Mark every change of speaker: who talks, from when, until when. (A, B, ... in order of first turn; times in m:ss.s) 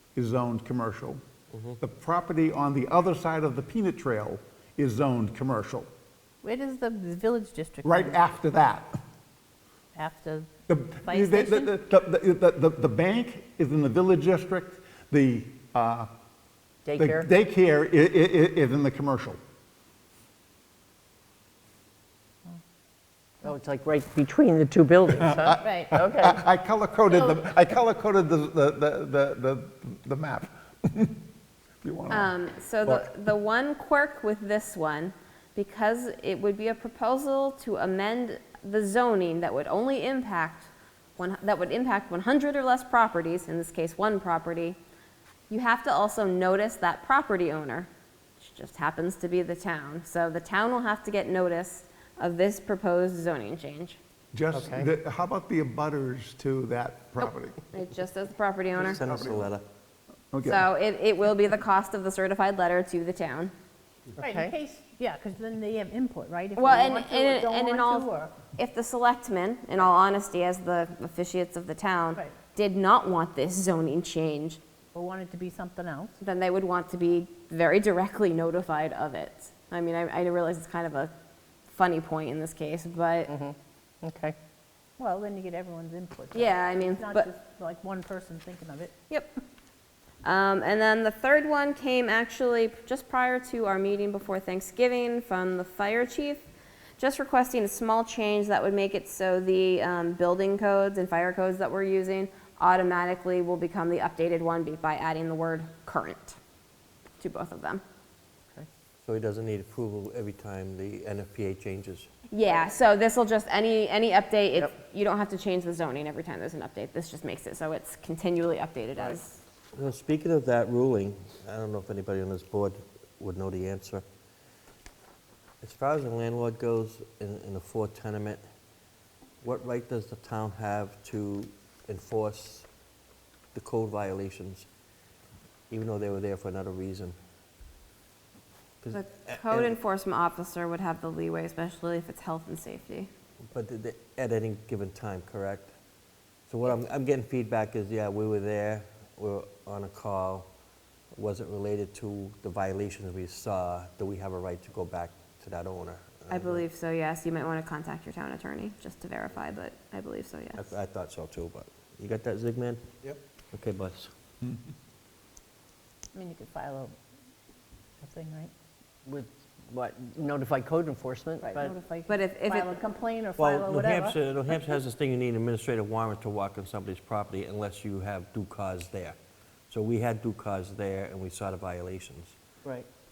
0:00.2-0:01.2 A
0:01.5-0:01.8 B
0:01.8-0:05.9 A
0:06.4-0:08.2 C
0:07.8-0:08.9 A
0:10.0-0:11.8 C
0:10.7-0:16.1 A
0:16.8-0:17.3 D
0:17.0-0:19.4 A
0:23.4-0:26.4 D
0:25.1-0:31.2 A
0:27.1-0:27.4 E
0:31.8-0:32.3 A
0:32.1-0:44.8 E
0:32.8-0:33.1 A
0:45.5-0:47.9 E
0:48.4-0:54.0 E
0:54.3-0:57.6 A
0:54.5-0:54.9 D
0:57.7-0:59.0 E
0:58.8-0:59.5 A
0:58.8-0:59.6 B
1:00.3-1:00.7 A
1:00.4-1:03.5 E
1:04.2-1:04.5 D
1:04.2-1:08.4 C
1:06.6-1:14.6 E
1:14.9-1:16.2 C
1:16.2-1:21.1 E
1:21.7-1:23.3 E
1:23.3-1:24.4 D
1:25.0-1:28.9 C
1:26.3-1:27.3 E
1:30.2-1:36.4 E
1:37.0-1:46.4 E
1:47.2-1:47.8 E
1:49.0-1:52.1 B
1:52.3-1:59.4 E
1:59.7-2:04.0 B
2:05.6-2:08.4 B
2:09.4-2:12.7 B
2:13.5-2:14.7 B
2:15.7-2:17.2 B
2:18.8-2:19.8 B
2:18.9-2:23.1 E
2:23.4-2:25.7 B
2:26.5-2:30.5 B
2:31.1-2:36.7 B
2:36.3-2:40.7 E
2:40.5-2:42.9 B
2:43.5-2:44.1 B
2:46.1-2:47.0 C
2:48.0-2:48.5 C
2:49.1-2:51.8 D
2:51.4-2:54.8 C
2:52.1-2:52.8 E
2:53.4-2:59.2 B
2:59.7-3:02.4 B